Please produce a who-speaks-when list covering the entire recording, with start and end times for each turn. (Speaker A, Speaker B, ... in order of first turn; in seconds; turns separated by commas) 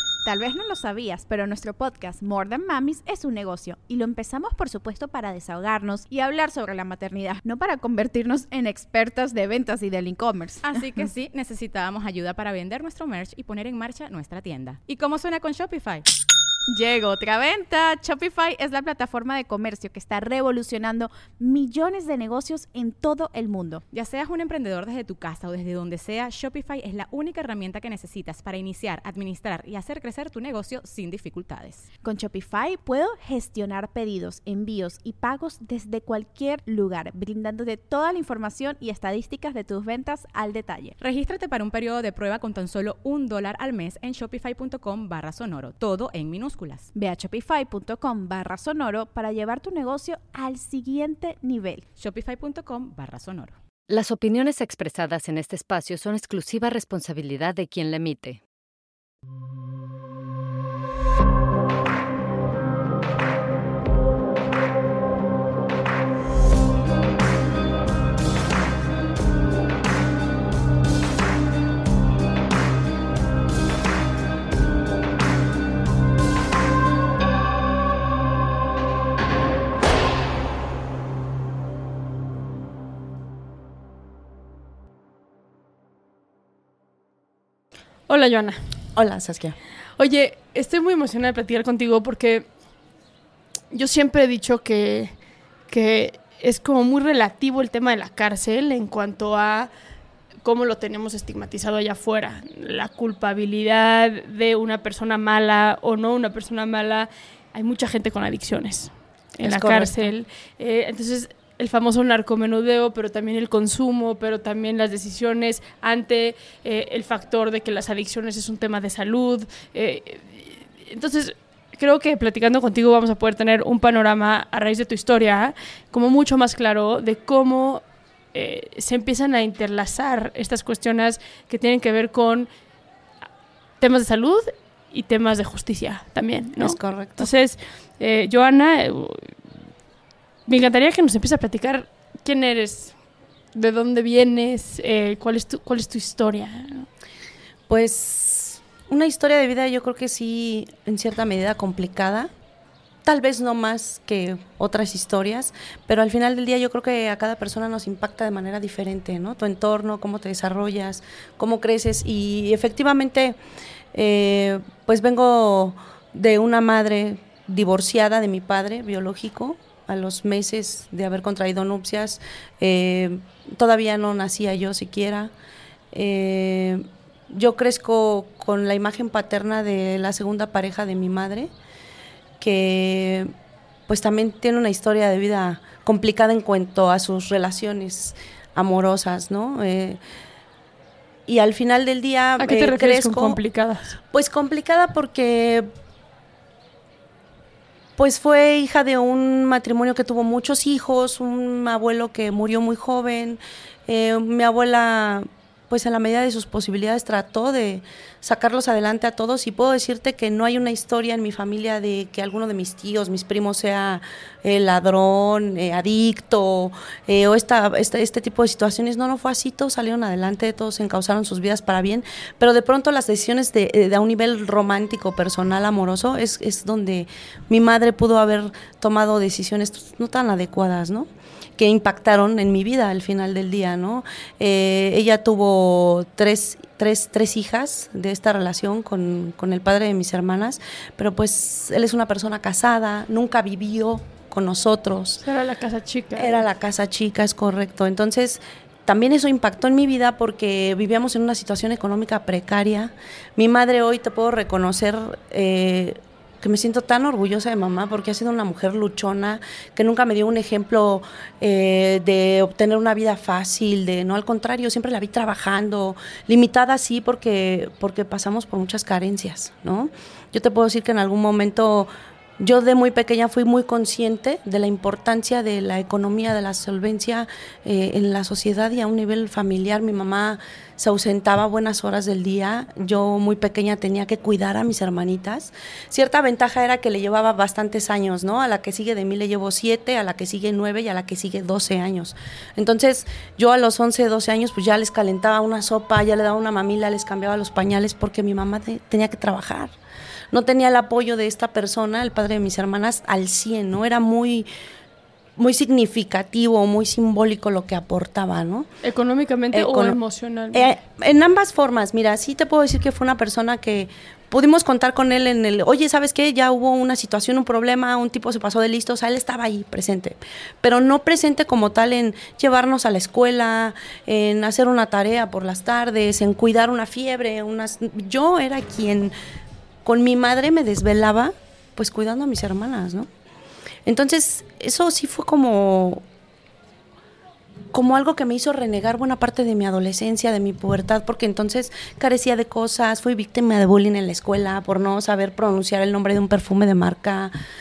Speaker A: 0.2-11.1, Speaker B: 10.6-16.1, Speaker A: 16.7-23.8, Speaker B: 23.9-31.9, Speaker A: 32.0-41.0, Speaker B: 41.0-46.9, Speaker A: 46.9-51.8, Speaker B: 52.0-53.6, Speaker C: 53.9-58.4, Speaker D: 88.1-88.6, Speaker E: 89.0-89.6, Speaker D: 90.0-92.5, Speaker D: 93.7-95.1, Speaker D: 95.7-99.7, Speaker D: 100.4-127.8, Speaker E: 109.4-110.1, Speaker D: 128.3-132.5, Speaker D: 133.8-139.3, Speaker E: 136.6-137.3, Speaker D: 140.5-142.9, Speaker D: 143.6-146.9, Speaker E: 147.7-152.3, Speaker E: 153.1-163.4, Speaker E: 163.9-175.3, Speaker E: 175.9-181.5, Speaker E: 182.4-183.3, Speaker E: 183.9-190.0, Speaker E: 191.3-193.4, Speaker D: 192.4-194.0, Speaker E: 194.1-195.7, Speaker E: 198.0-245.2, Speaker D: 245.2-246.4, Speaker E: 246.2-299.7, Speaker E: 300.3-304.5, Speaker E: 305.4-308.7, Speaker D: 308.8-310.7, Speaker E: 309.5-310.0, Speaker E: 310.5-329.1, Speaker E: 329.8-333.1, Speaker E: 333.9-336.0, Speaker E: 337.7-347.3